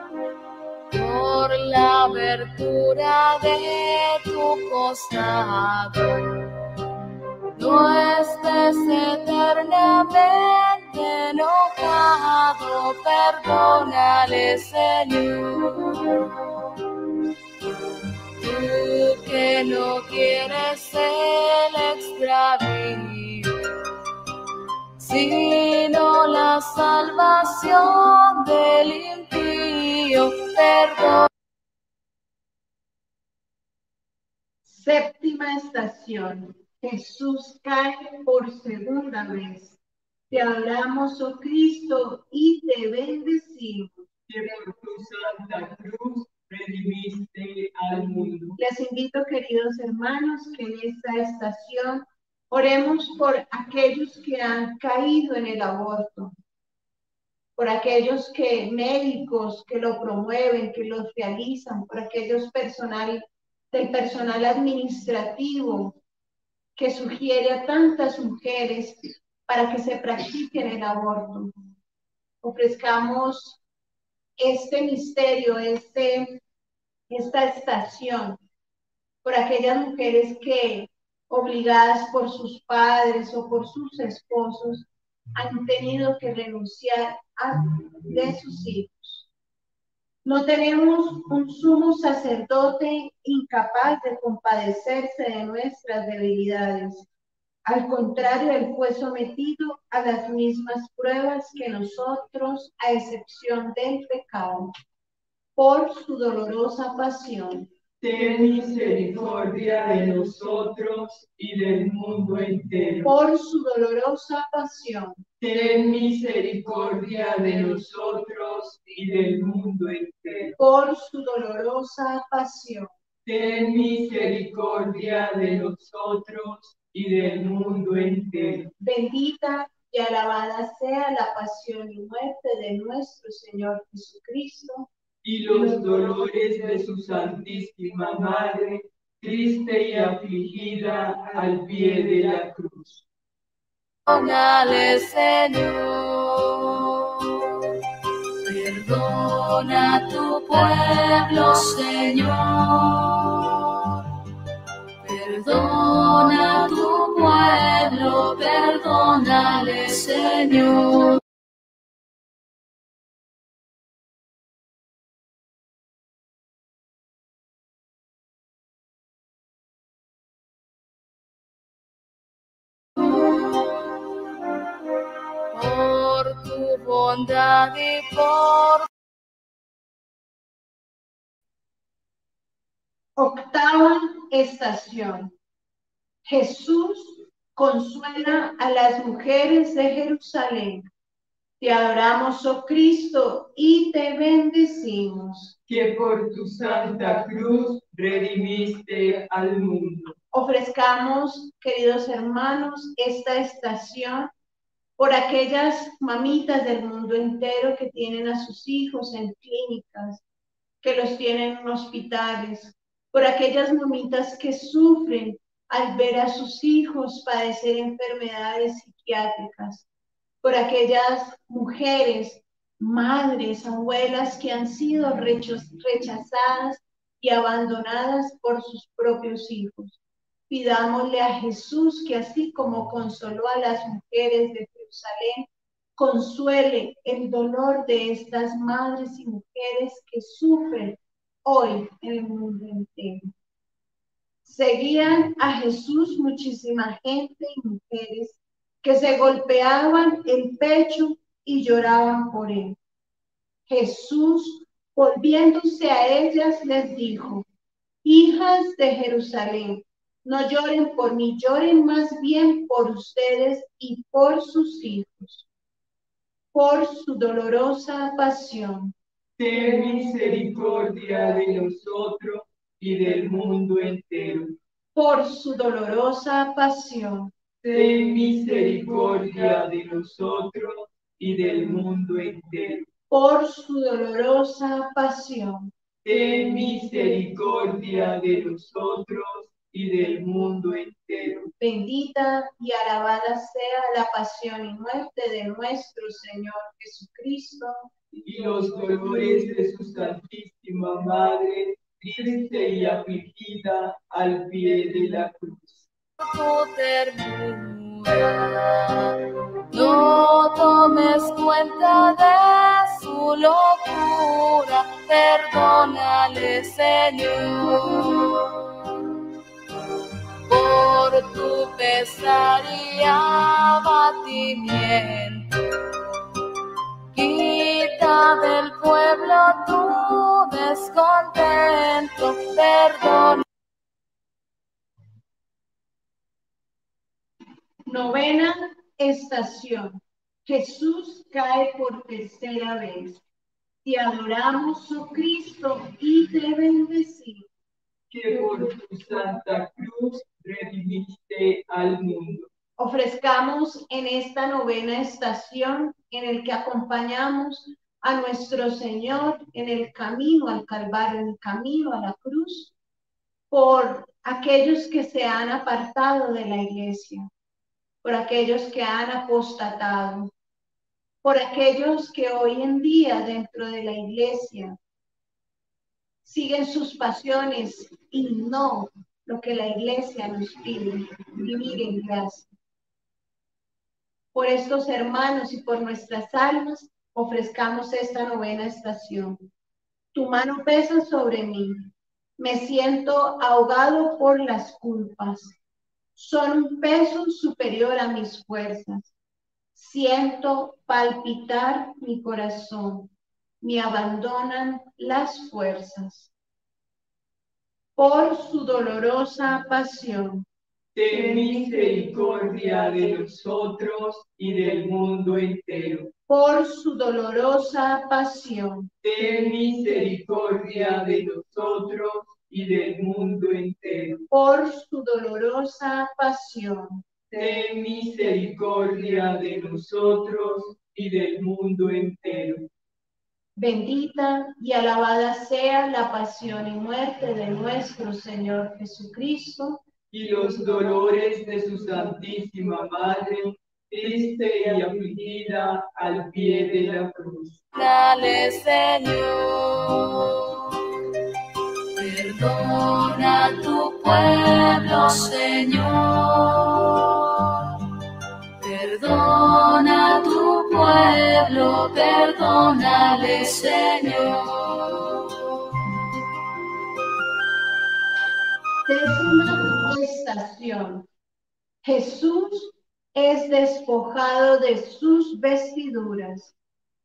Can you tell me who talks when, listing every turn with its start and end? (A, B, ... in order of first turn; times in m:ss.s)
0:00.9-0:06.6 A
0:07.6-0:16.8 A
0:18.4-0:23.9 A
0:25.0-0:31.3 A
0:34.6-0:39.8 B
0:40.3-0:44.0 B
0:44.3-0:48.6 C
0:48.6-0:56.3 B
0:57.6-1:06.0 B
1:06.8-1:11.5 B
1:12.4-1:13.6 B
1:14.4-1:16.4 B
1:17.1-1:18.4 B
1:19.2-1:29.3 B
1:30.2-1:37.1 B
1:37.7-1:44.7 B
1:45.6-1:47.7 B
1:48.0-1:53.1 C
1:53.0-1:55.2 B
1:55.4-2:00.6 C
2:00.6-2:02.9 B
2:03.2-2:08.7 C
2:08.8-2:14.9 B
2:15.2-2:23.0 C
2:24.1-2:27.8 A
2:28.4-2:34.1 A
2:35.0-2:41.2 A
2:55.5-2:58.9 A
3:03.2-3:05.3 B
3:06.3-3:10.8 B
3:11.6-3:15.6 B
3:15.7-3:20.2 C
3:20.3-3:24.3 B
3:25.0-3:30.2 B
3:30.8-3:39.9 B
3:40.4-3:50.0 B
3:50.5-4:03.2 B
4:04.4-4:12.8 B
4:13.7-4:17.5 B
4:18.0-4:25.5 B
4:26.5-4:28.9 B
4:29.4-4:34.6 C
4:35.0-4:37.3 B
4:37.6-4:42.9 C
4:43.1-4:45.7 B
4:46.0-4:51.5 C
4:51.6-4:57.9 B
4:58.2-5:05.9 C
5:06.2-5:19.1 A
5:20.5-5:26.0 A
5:27.1-5:33.4 A
5:37.9-5:43.2 B
5:43.8-5:47.5 B
5:48.1-5:52.5 C
5:52.8-6:02.7 B
6:03.5-6:07.3 B
6:08.0-6:10.3 B
6:11.2-6:14.8 B
6:16.2-6:22.5 B
6:24.3-6:29.4 B
6:30.1-6:35.6 B
6:36.2-6:39.1 B
6:39.8-6:43.1 B
6:43.6-6:46.3 B
6:48.0-6:50.5 B
6:51.0-6:56.1 C
6:56.3-6:58.9 B
6:59.0-7:04.3 C
7:04.3-7:07.0 B
7:07.3-7:12.7 C
7:13.6-7:19.8 B
7:20.1-7:27.6 C
7:27.7-7:31.1 A
7:32.0-7:37.8 A
7:38.6-7:45.3 A
7:48.9-7:51.1 B
7:51.8-7:56.6 B